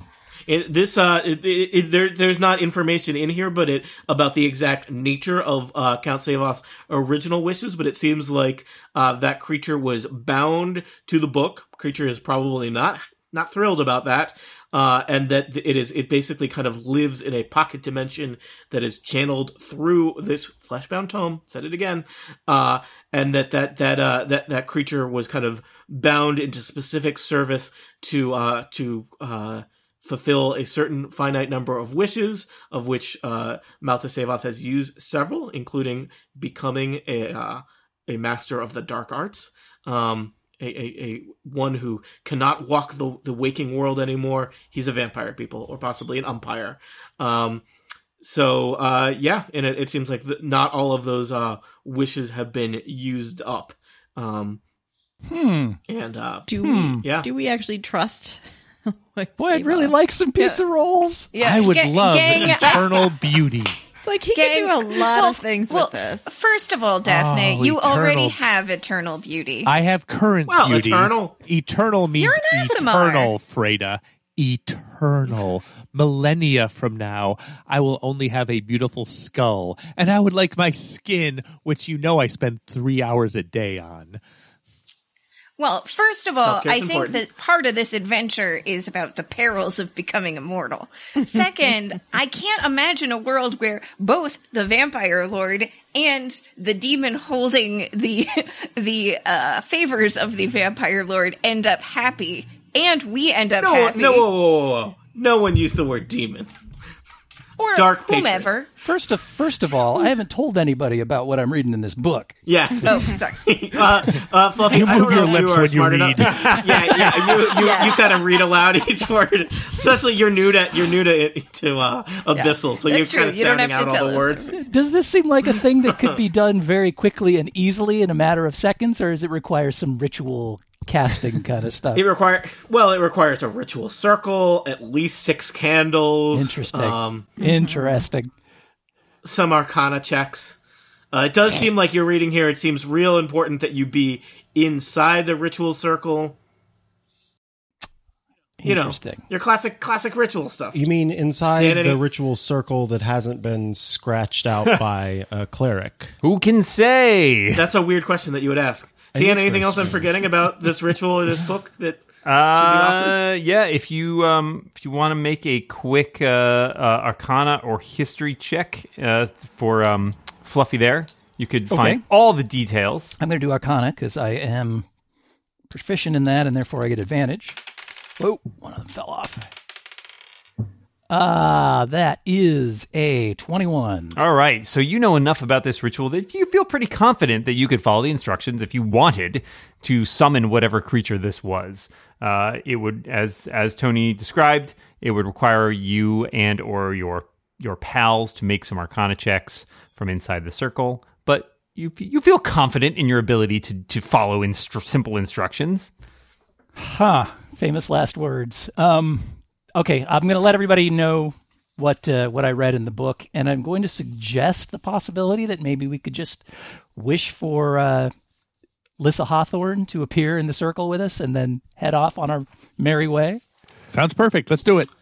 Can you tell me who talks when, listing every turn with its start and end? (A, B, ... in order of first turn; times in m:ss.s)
0:00.5-0:47.6 A
0:48.2-0:54.6 A
0:55.3-0:55.8 B
0:55.9-0:57.3 A
0:56.5-1:00.0 C
0:56.6-0:57.0 B
0:59.4-1:01.3 B
1:01.3-1:03.1 D
1:01.4-1:03.8 E
1:04.0-1:06.3 C
1:04.3-1:09.7 D
1:07.0-1:08.4 E
1:09.6-1:24.2 E
1:10.5-1:11.4 A
1:12.2-1:13.3 D
1:25.6-1:44.3 D
1:26.4-1:27.2 A
1:43.6-1:46.5 A
1:47.6-1:48.7 D
1:47.7-1:48.5 A
1:48.8-1:52.3 B
1:52.5-2:04.6 A
1:52.8-1:53.4 D
1:54.7-1:56.9 E
1:57.5-1:58.2 D
2:02.3-2:04.5 D
2:04.6-2:12.0 B
2:12.0-2:17.3 A
2:16.3-2:18.3 B
2:19.2-2:20.6 A
2:21.1-2:26.4 A
2:28.6-2:29.2 B
2:28.6-2:30.8 A
2:30.7-2:36.1 F
2:31.6-2:32.0 A
2:36.2-2:37.6 G
2:37.6-2:43.2 A
2:39.1-2:40.3 F
2:42.2-2:53.2 G
2:51.7-2:52.0 B
2:53.2-2:54.9 B
2:55.7-2:57.6 B
2:58.2-2:59.4 B
3:01.1-3:04.2 B
3:04.2-3:25.9 G
3:26.8-3:36.4 B
3:37.0-3:38.1 B
3:39.0-3:43.4 B
3:43.9-3:44.9 E